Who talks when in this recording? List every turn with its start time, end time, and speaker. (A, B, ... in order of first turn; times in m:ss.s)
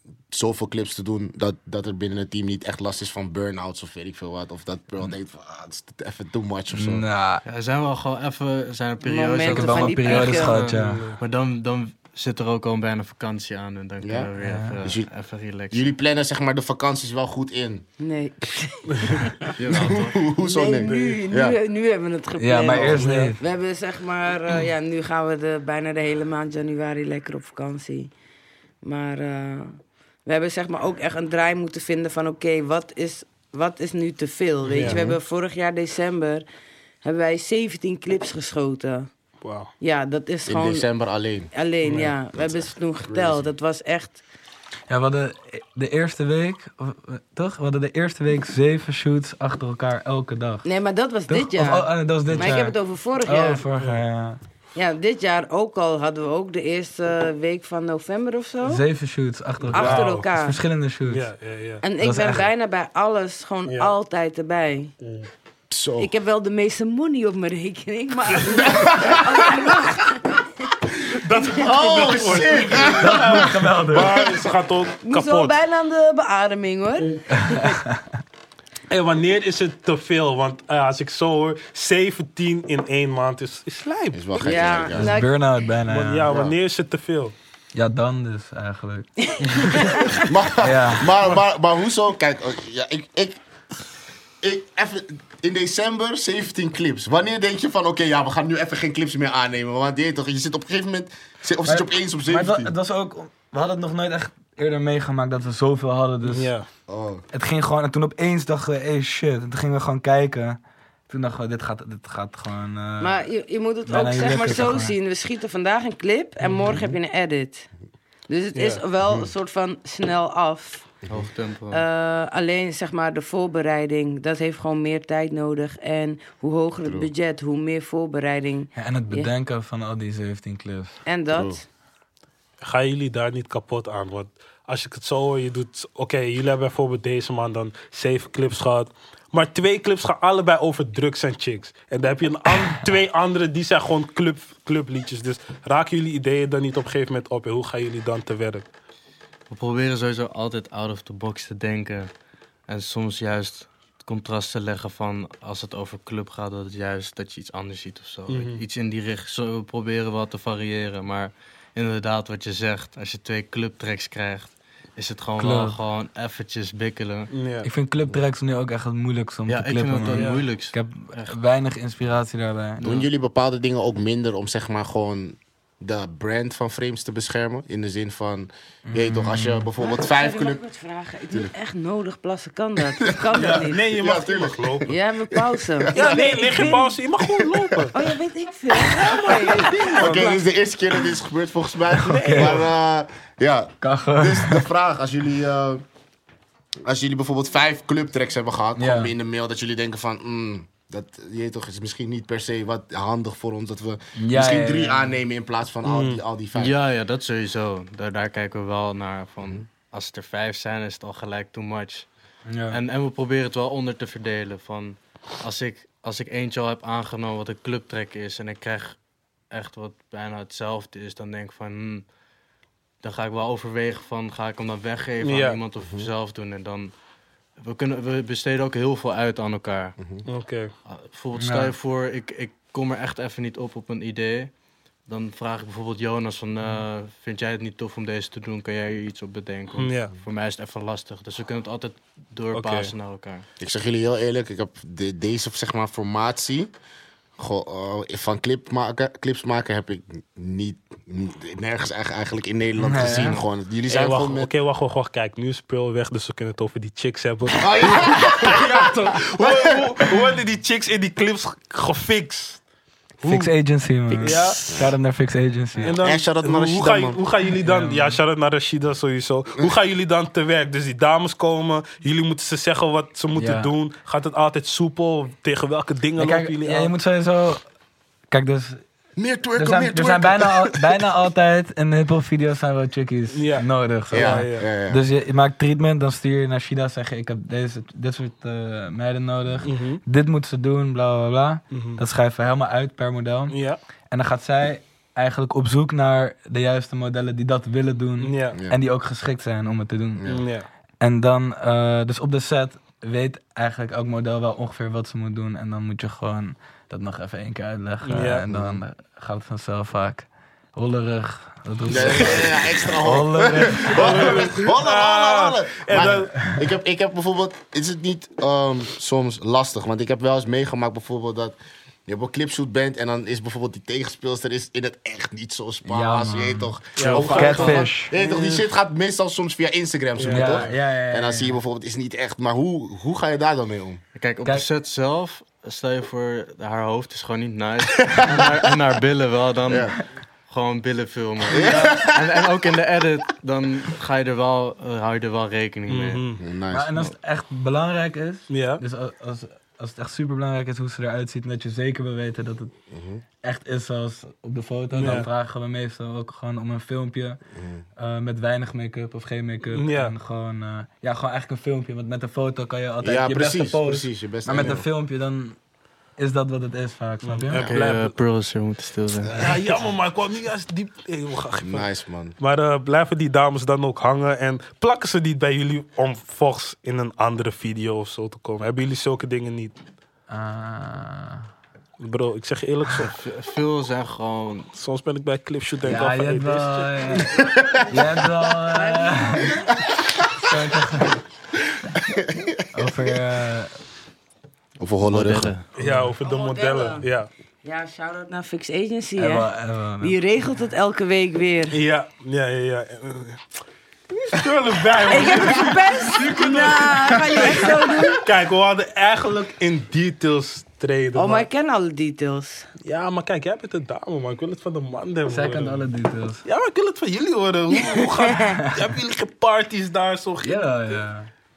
0:00.3-0:07.0 A
0:06.7-0:07.4 B
0:07.4-0:15.9 C
0:09.0-0:10.6 D
0:09.5-0:11.1 B
0:10.7-0:11.2 E
0:14.0-0:14.3 A
0:14.4-0:14.8 B
0:14.8-0:15.1 A
0:15.7-0:17.8 A
0:18.0-0:28.1 D
0:18.9-0:19.2 E
0:19.6-0:20.2 C
0:19.7-0:21.6 A
0:20.8-0:21.2 E
0:22.4-0:23.4 B
0:22.8-0:23.3 E
0:28.8-0:36.4 D
0:34.6-0:35.0 E
0:34.8-0:35.2 A
0:37.0-0:39.1 D
0:39.4-0:39.7 E
0:39.8-0:40.8 D
0:40.4-0:43.5 A
0:41.5-0:44.2 D
0:41.8-0:42.1 E
0:44.9-0:50.6 B
0:50.6-0:53.6 D
0:51.3-0:54.4 B
0:53.7-0:54.0 E
0:54.7-0:58.8 D
0:58.6-1:01.3 B
0:59.7-1:00.3 E
0:59.7-1:00.6 D
1:01.1-1:01.8 E
1:01.8-1:04.9 D
1:02.0-1:02.5 B
1:03.6-1:03.9 E
1:05.0-1:05.3 E
1:05.7-1:06.1 A
1:06.0-1:10.7 D
1:08.6-1:09.7 A
1:11.1-1:15.5 E
1:11.4-1:12.5 D
1:11.6-1:13.5 A
1:12.8-1:14.2 B
1:15.0-1:17.8 D
1:17.3-1:18.1 B
1:18.9-1:24.6 E
1:24.1-1:25.2 A
1:24.4-1:25.3 D
1:24.9-1:26.3 B
1:25.8-1:27.3 E
1:26.3-1:26.5 A
1:27.7-1:30.0 B
1:29.2-1:30.3 D
1:30.2-1:33.4 A
1:30.5-1:31.2 B
1:34.4-1:42.7 A
1:41.6-1:46.5 B
1:46.2-1:46.7 E
1:46.9-1:47.2 A
1:47.3-1:53.2 B
1:53.0-1:57.7 D
1:53.8-1:55.0 B
1:58.3-2:00.9 D
1:58.5-1:58.8 E
1:59.0-1:59.3 A
2:01.0-2:01.3 A
2:01.1-2:01.8 C
2:01.7-2:09.3 D
2:06.8-2:07.1 A
2:08.8-2:11.0 B
2:11.0-2:11.6 D
2:11.3-2:11.6 A
2:12.6-2:28.7 E
2:29.5-2:32.1 C
2:32.7-2:47.3 C
2:38.3-2:38.6 E
2:45.4-2:45.8 B
2:47.3-2:47.7 E
2:47.6-2:52.8 B
2:49.5-2:51.4 C
2:50.1-2:50.4 E
2:52.8-2:53.1 C
2:52.8-3:00.6 A
2:58.8-2:59.7 B
2:59.8-3:03.8 D
3:03.0-3:07.6 A
3:03.3-3:04.9 E
3:04.9-3:06.9 D
3:05.9-3:08.0 E
3:07.9-3:10.3 D
3:08.9-3:10.4 E
3:09.0-3:15.8 A
3:12.0-3:12.7 E
3:12.0-3:12.6 B
3:13.8-3:14.7 B
3:16.8-3:26.8 A
3:18.8-3:19.1 B
3:24.2-3:25.1 B
3:25.8-3:26.2 E
3:26.5-3:32.1 C
3:32.5-3:32.8 B
3:32.7-3:39.0 C
3:39.5-3:42.1 C
3:43.0-3:46.9 C
3:45.2-3:45.6 E
3:45.8-3:46.1 A
3:47.6-3:50.0 C
3:50.0-3:50.2 A
3:50.2-3:50.7 E
3:50.8-4:03.4 C
3:51.3-3:51.7 B
3:59.8-4:00.1 E
4:02.5-4:02.9 E
4:03.6-4:06.7 A
4:07.4-4:14.5 A
4:12.8-4:13.4 B
4:13.9-4:22.6 E
4:17.6-4:19.8 A
4:23.2-4:23.5 E
4:23.2-4:26.0 B
4:24.2-4:24.6 E
4:25.8-4:36.9 E
4:26.0-4:27.2 A
4:27.6-4:28.2 B
4:33.3-4:33.7 B
4:36.2-4:37.6 B
4:38.3-4:38.8 B
4:39.2-4:41.0 A
4:39.6-4:53.6 B
4:43.3-4:44.7 E
4:44.1-4:45.0 A
4:49.6-4:50.0 E
4:51.7-4:52.0 E
4:53.5-4:53.8 E
4:54.1-5:00.4 B
4:58.2-4:58.5 E
5:00.2-5:00.4 A
5:00.3-5:00.7 E
5:01.0-5:14.5 B
5:08.0-5:08.4 E
5:08.5-5:08.8 A
5:11.9-5:34.0 A
5:12.0-5:12.5 E
5:13.7-5:16.4 E
5:25.8-5:28.2 B
5:27.0-5:28.4 E
5:27.0-5:27.9 C
5:30.2-5:30.5 E
5:30.3-5:31.6 B
5:34.2-5:46.2 C
5:38.1-5:38.5 A
5:39.7-5:40.0 A
5:41.5-5:42.3 A
5:45.9-5:46.4 E
5:46.4-5:47.1 A
5:46.7-5:52.7 B
5:48.5-5:48.8 E
5:52.9-5:53.2 A
5:53.4-5:57.4 B
5:54.9-5:55.3 E
5:57.6-5:57.8 A
5:58.0-6:05.6 B
5:59.7-6:00.1 E
6:03.0-6:04.8 A
6:06.2-6:07.7 B
6:07.2-6:08.2 E
6:07.5-6:09.6 C
6:09.3-6:19.8 E
6:11.6-6:12.4 A
6:20.3-6:21.5 B
6:22.0-6:23.1 E
6:23.0-6:24.7 C
6:24.7-6:27.1 E
6:25.8-6:29.7 B
6:27.5-6:27.7 A
6:28.7-6:29.7 D
6:30.4-6:31.2 B
6:32.0-6:32.6 A
6:32.7-6:33.7 B
6:34.8-6:35.5 A
6:35.0-6:35.6 C
6:35.8-6:37.3 E
6:35.8-6:36.1 B
6:36.2-6:37.0 D
6:37.6-6:39.5 D
6:39.2-6:40.2 B
6:40.0-6:41.8 D
6:41.7-6:43.4 E
6:44.3-6:51.5 E
6:45.1-6:48.2 D
6:51.1-6:52.7 D
6:52.8-6:55.9 E
6:55.3-6:56.4 B
6:56.4-7:01.0 E
6:58.0-6:58.6 D
7:00.4-7:01.3 B